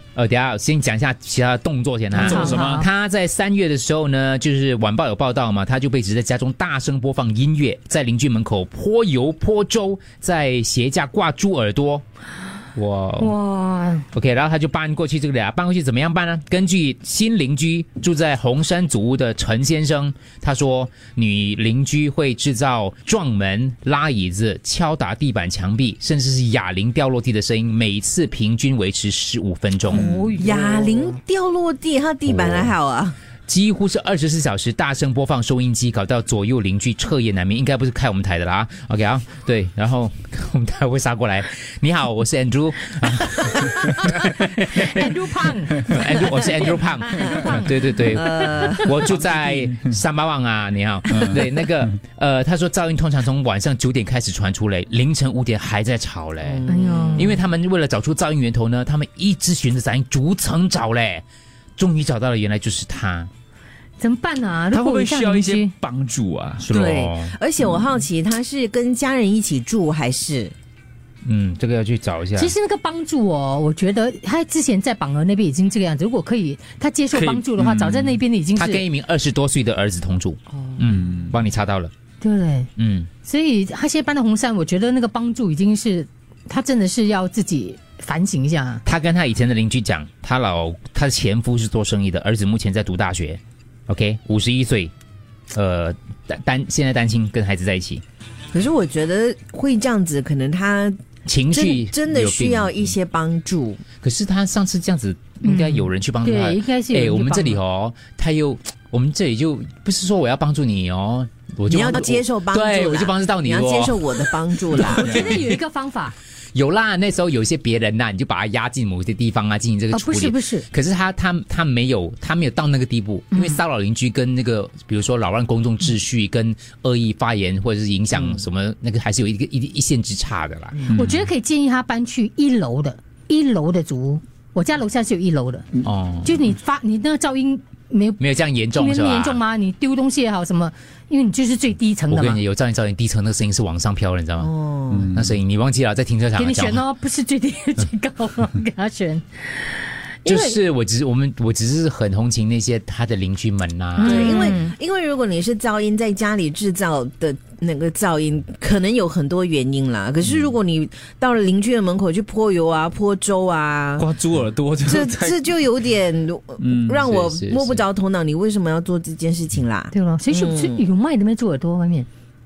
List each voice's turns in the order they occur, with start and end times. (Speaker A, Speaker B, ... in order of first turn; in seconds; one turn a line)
Speaker A: 0.1-12.0
Speaker B: 2.1-2.8
Speaker C: 2.2-2.9
Speaker A: 12.8-13.3
Speaker B: 13.2-14.1
Speaker A: 14.1-30.1
Speaker B: 29.9-31.2
Speaker D: 29.9-33.2
Speaker A: 32.3-32.7
Speaker A: 33.5-45.0
Speaker B: 43.9-48.8
Speaker A: 45.7-61.2
Speaker D: 48.1-49.0
Speaker C: 51.1-51.4
Speaker D: 56.4-57.4
Speaker B: 56.7-57.4
Speaker A: 61.8-63.3
Speaker B: 64.0-65.7
Speaker C: 64.7-66.7
Speaker A: 66.6-67.3
Speaker D: 66.7-70.5
Speaker A: 71.2-72.5
Speaker B: 72.3-78.8
Speaker C: 77.1-78.2
Speaker A: 78.6-81.9
Speaker C: 81.0-81.3
Speaker B: 82.2-82.7
Speaker A: 82.8-83.1
Speaker B: 83.2-88.8
Speaker A: 88.8-94.9
Speaker A: 95.5-98.0
Speaker D: 98.5-101.0
Speaker A: 101.2-102.9
Speaker D: 101.5-103.8
Speaker A: 104.0-114.2
Speaker B: 105.4-107.6
Speaker D: 111.7-115.3
Speaker A: 114.8-115.6
Speaker B: 114.8-116.2
Speaker A: 116.5-131.0
Speaker B: 119.9-120.7
Speaker B: 123.3-123.6
Speaker B: 130.9-138.2
Speaker C: 130.9-131.2
Speaker A: 135.8-136.4
Speaker A: 138.2-139.4
Speaker B: 138.8-142.4
Speaker A: 142.1-144.5
Speaker D: 144.4-145.1
Speaker C: 144.9-145.3
Speaker A: 145.1-146.8
Speaker B: 146.4-150.6
Speaker A: 150.2-154.3
Speaker B: 154.0-154.8
Speaker D: 154.0-164.1
Speaker C: 164.0-165.4
Speaker D: 164.8-170.9
Speaker C: 166.6-167.1
Speaker A: 167.0-167.8
Speaker B: 169.9-172.1